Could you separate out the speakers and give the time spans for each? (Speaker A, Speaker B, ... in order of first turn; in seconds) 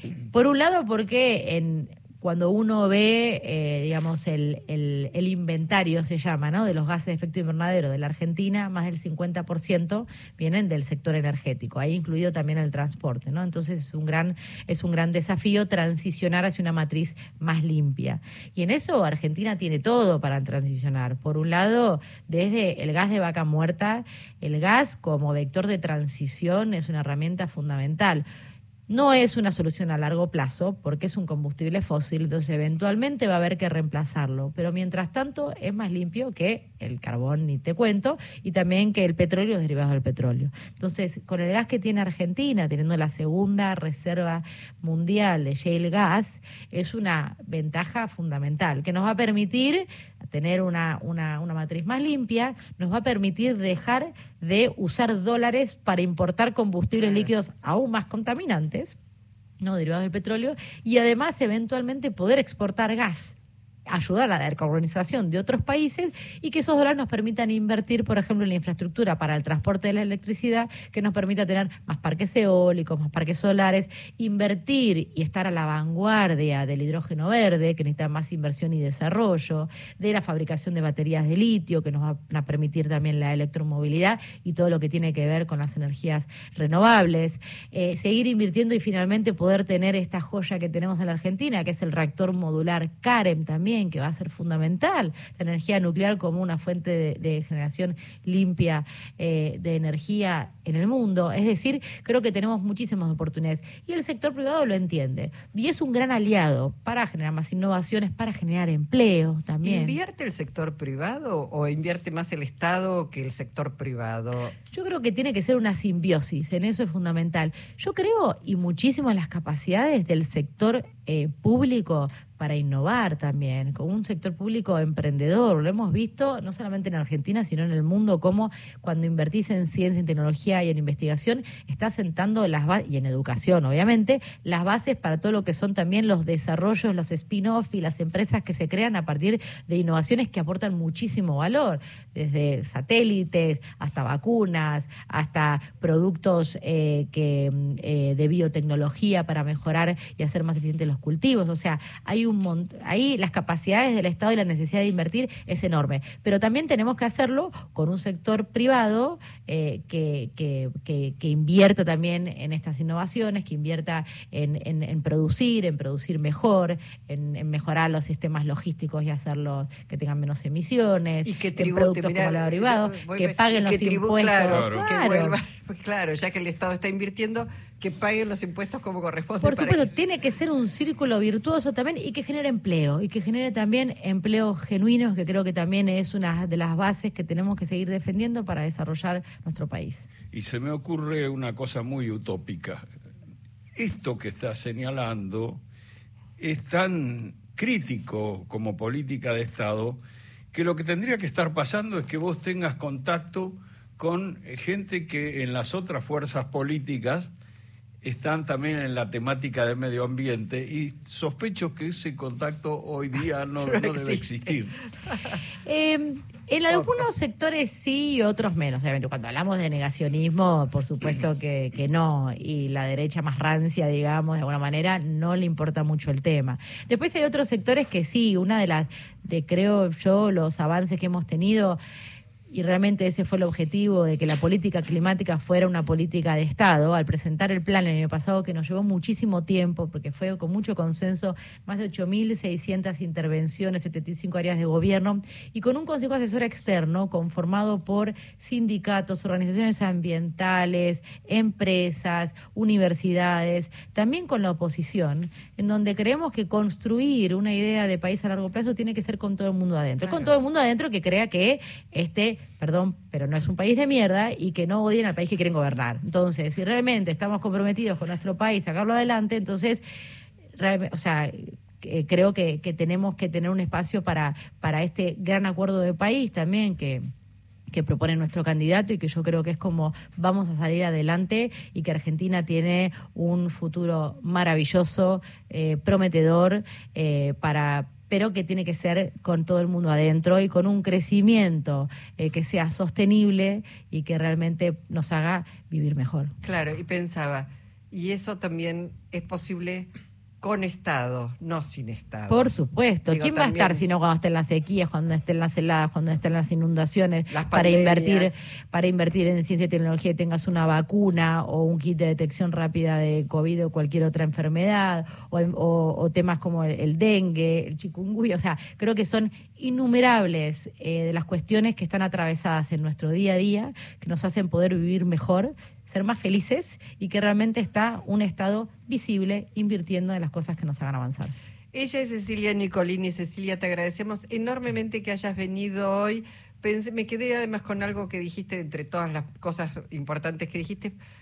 Speaker A: 0.3-28.2, 28.9-59.0, 59.6-63.4, 63.9-110.0, 114.7-175.4, 179.4-190.1, 215.6-231.8, 232.5-269.8, 270.6-277.1, 277.7-296.3, 302.3-331.3
Speaker B: 56.9-57.3, 109.6-114.5, 171.2-179.9, 213.7-214.2, 215.1-215.4, 260.0-260.3, 296.4-299.9, 300.4-302.5, 303.1-303.8, 307.3-308.4, 331.7-340.9
Speaker C: 174.5-174.9, 190.3-192.8, 193.8-195.6, 196.4-200.0, 200.5-207.3, 208.0-214.8